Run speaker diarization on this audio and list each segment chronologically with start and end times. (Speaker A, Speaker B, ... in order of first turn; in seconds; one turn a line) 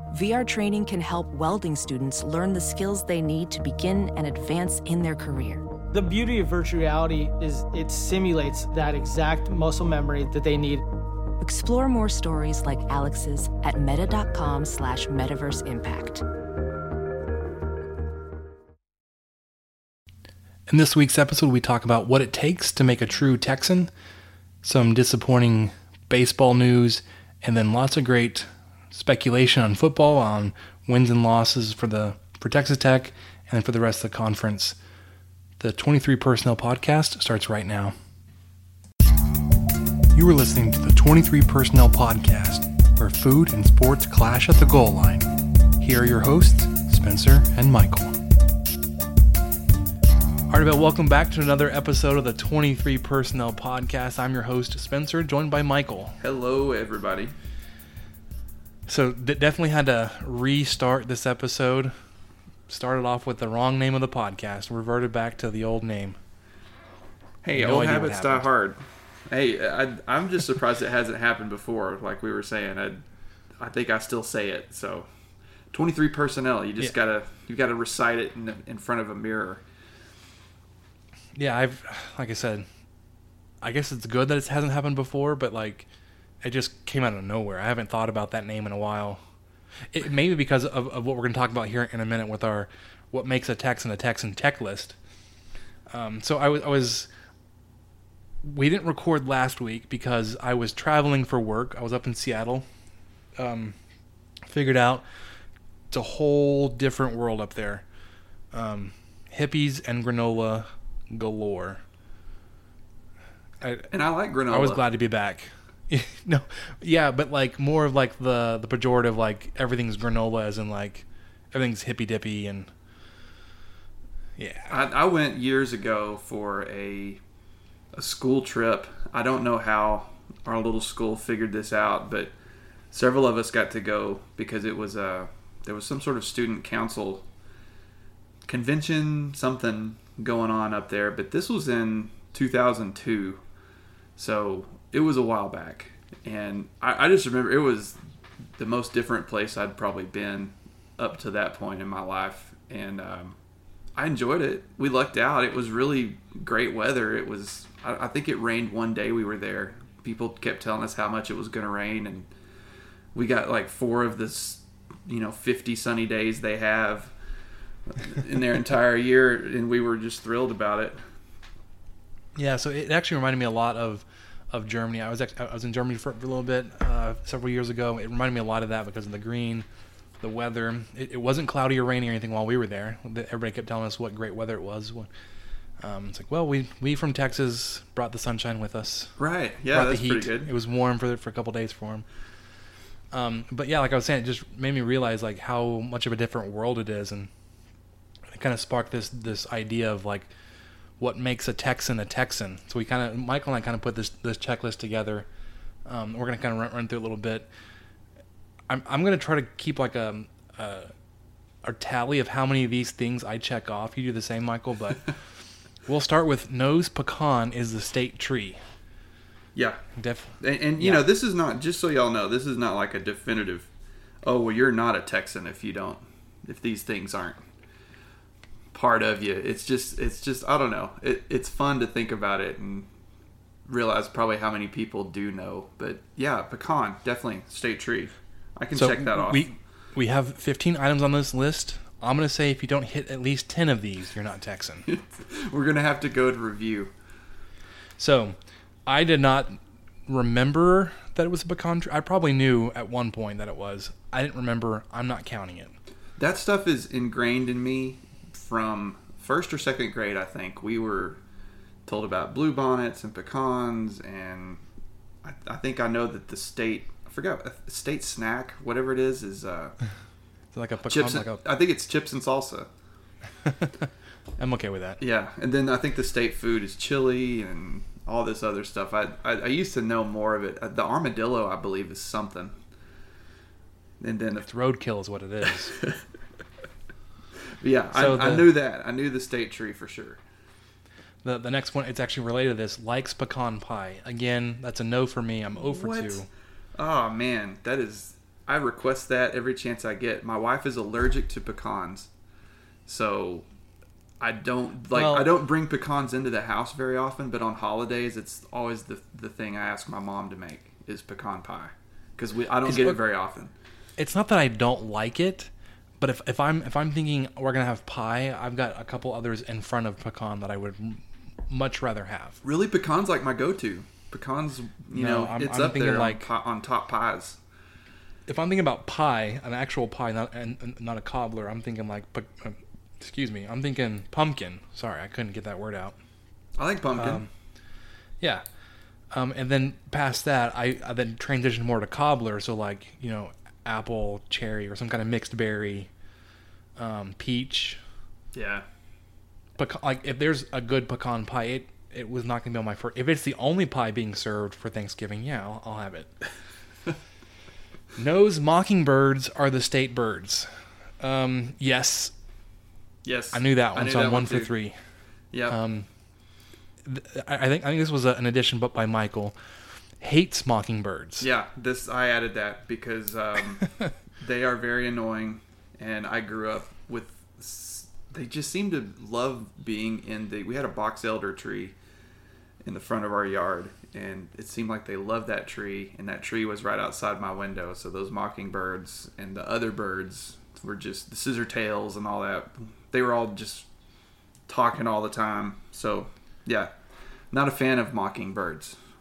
Speaker A: 0.1-5.6
Speaker B: 5.9-10.8
Speaker A: 11.4-16.2
Speaker C: 20.7-23.9
Speaker C: 24.6-34.8
Speaker C: 35.6-37.9
Speaker C: 40.1-48.2
Speaker C: 50.5-56.2
Speaker D: 56.2-57.3
Speaker C: 58.9-61.9
Speaker C: 62.7-66.2
Speaker D: 67.4-73.0
Speaker C: 67.5-68.5
Speaker D: 73.6-75.1
Speaker D: 75.7-79.6
Speaker C: 81.3-82.7
Speaker C: 83.6-85.9
Speaker C: 86.4-89.2
Speaker C: 89.9-95.0
Speaker C: 95.9-97.1
Speaker C: 98.4-102.7
Speaker C: 103.4-103.8
Speaker C: 104.5-105.0
Speaker C: 105.9-107.8
Speaker C: 108.5-111.8
Speaker C: 113.6-113.9
Speaker D: 113.9-114.8
Speaker C: 114.5-122.7
Speaker C: 124.4-124.8
Speaker D: 124.7-127.2
Speaker D: 127.9-132.3
Speaker D: 132.9-137.3
Speaker D: 138.4-143.4
Speaker D: 144.2-148.0
Speaker D: 148.6-153.4
Speaker D: 153.9-162.3
Speaker D: 163.1-167.1
Speaker D: 167.9-171.0
Speaker C: 172.3-179.7
Speaker C: 180.2-185.1
Speaker C: 185.8-189.1
Speaker D: 189.2-190.5
Speaker C: 189.7-192.0
Speaker C: 193.1-197.3
Speaker C: 198.3-200.3
Speaker C: 201.0-205.3
Speaker C: 205.8-207.5
Speaker C: 208.7-210.9
Speaker C: 211.6-215.1
Speaker C: 215.8-218.6
Speaker D: 219.5-219.8
Speaker C: 219.9-221.0
Speaker D: 220.4-223.7
Speaker D: 224.2-227.4
Speaker D: 228.7-232.9
Speaker D: 233.7-239.4
Speaker C: 238.7-244.9
Speaker D: 244.9-246.9
Speaker C: 248.0-255.7
Speaker D: 256.2-261.2
Speaker D: 261.9-264.6
Speaker D: 265.2-269.8
Speaker C: 270.5-271.4
Speaker D: 270.9-272.7
Speaker C: 273.4-273.9
Speaker C: 274.4-275.0
Speaker D: 275.0-282.6
Speaker D: 284.0-284.5
Speaker C: 284.4-285.7
Speaker D: 285.4-286.0
Speaker D: 287.6-290.2
Speaker C: 287.9-288.5
Speaker C: 291.2-296.3
Speaker D: 295.6-296.2
Speaker D: 296.8-302.1
Speaker D: 302.9-303.5
Speaker D: 304.2-313.5
Speaker C: 304.9-305.3
Speaker C: 312.6-313.0
Speaker C: 314.0-322.4
Speaker D: 322.4-327.4
Speaker C: 324.9-326.3
Speaker C: 328.3-335.9
Speaker D: 336.6-337.3
Speaker C: 336.9-337.3
Speaker C: 339.1-345.9
Speaker C: 346.8-347.8
Speaker D: 348.3-348.6
Speaker C: 349.6-356.1
Speaker C: 357.9-362.1
Speaker D: 363.0-364.5
Speaker C: 363.3-364.8
Speaker D: 365.3-365.6
Speaker C: 365.5-365.9
Speaker C: 366.8-369.4
Speaker C: 370.0-371.3
Speaker D: 371.2-381.8
Speaker D: 382.6-393.7
Speaker D: 394.5-396.7
Speaker D: 397.3-398.8